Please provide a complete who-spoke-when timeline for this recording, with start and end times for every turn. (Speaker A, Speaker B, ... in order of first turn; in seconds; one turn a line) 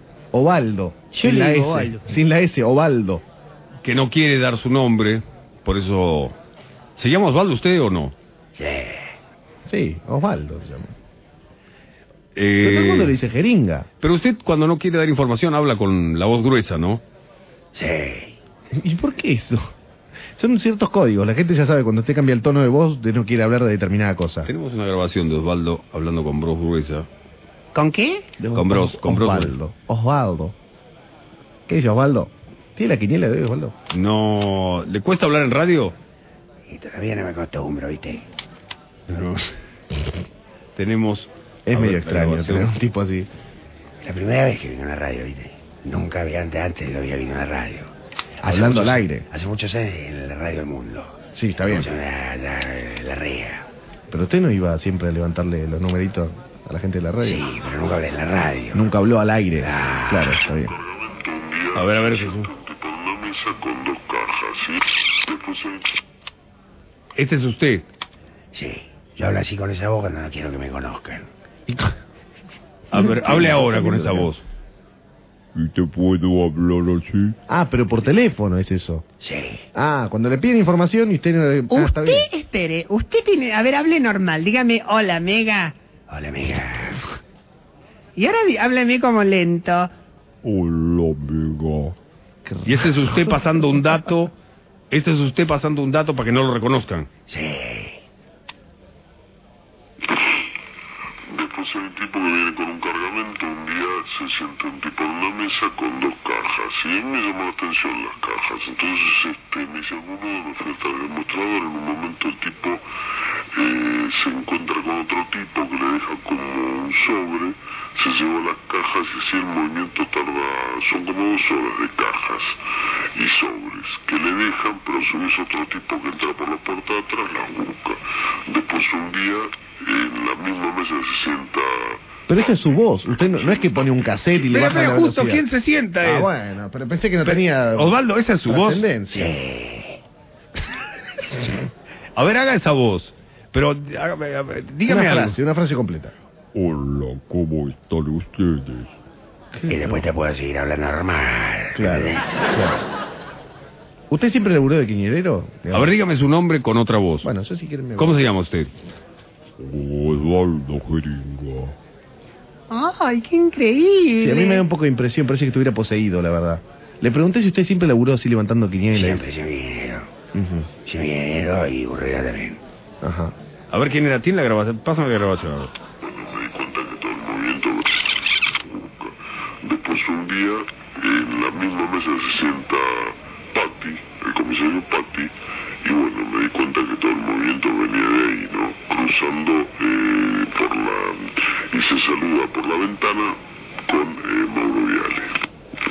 Speaker A: 0.3-3.2
Speaker B: 1.1-2.0
Speaker C: 3.8-6.4
Speaker C: 7.0-8.2
Speaker D: 8.6-9.1
Speaker A: 9.7-10.9
Speaker C: 12.3-13.2
Speaker A: 12.6-13.9
Speaker C: 14.0-17.0
Speaker D: 17.8-18.4
Speaker A: 18.7-19.7
Speaker A: 20.4-24.5
Speaker C: 24.4-27.1
Speaker B: 27.8-28.3
Speaker A: 28.4-30.6
Speaker C: 28.6-29.6
Speaker A: 31.7-33.7
Speaker C: 33.9-36.0
Speaker D: 36.7-38.3
Speaker C: 39.1-39.4
Speaker C: 40.8-42.7
Speaker A: 41.7-43.3
Speaker D: 44.0-53.7
Speaker A: 48.4-49.3
Speaker A: 51.4-51.9
Speaker A: 54.1-57.4
Speaker D: 57.2-58.9
Speaker A: 58.7-60.8
Speaker D: 59.6-60.5
Speaker E: 60.6-66.0
Speaker C: 61.8-62.5
Speaker C: 67.2-67.8
Speaker D: 68.5-71.3
Speaker A: 71.7-72.0
Speaker C: 72.9-74.4
Speaker A: 72.9-74.3
Speaker F: 75.5-77.3
Speaker A: 77.5-79.0
Speaker D: 79.2-79.7
Speaker A: 79.8-82.3
Speaker B: 81.7-85.7
Speaker D: 86.1-87.0
Speaker B: 88.2-89.9
Speaker F: 90.4-92.0
Speaker A: 92.5-93.7
Speaker C: 92.7-94.3
Speaker C: 94.9-97.1
Speaker D: 97.3-98.0
Speaker E: 101.3-112.8
Speaker E: 113.5-122.6
Speaker E: 123.2-132.0
Speaker A: 132.3-135.4
Speaker C: 134.4-136.3
Speaker A: 136.0-139.3
Speaker C: 137.3-138.9
Speaker D: 139.1-140.0
Speaker C: 142.2-145.4
Speaker A: 144.9-146.2
Speaker F: 146.5-148.9
Speaker A: 149.5-150.1
Speaker D: 149.7-152.3
Speaker A: 151.8-152.8
Speaker A: 154.1-155.9
Speaker C: 155.7-157.3
Speaker A: 157.2-158.2
Speaker C: 158.0-158.7
Speaker F: 159.6-161.8
Speaker B: 162.7-164.6
Speaker A: 164.2-169.2
Speaker D: 168.9-170.1
Speaker A: 170.3-170.7
Speaker D: 170.8-172.6
Speaker A: 173.0-173.3
Speaker C: 173.7-175.7
Speaker E: 176.0-185.3
Speaker E: 185.8-195.4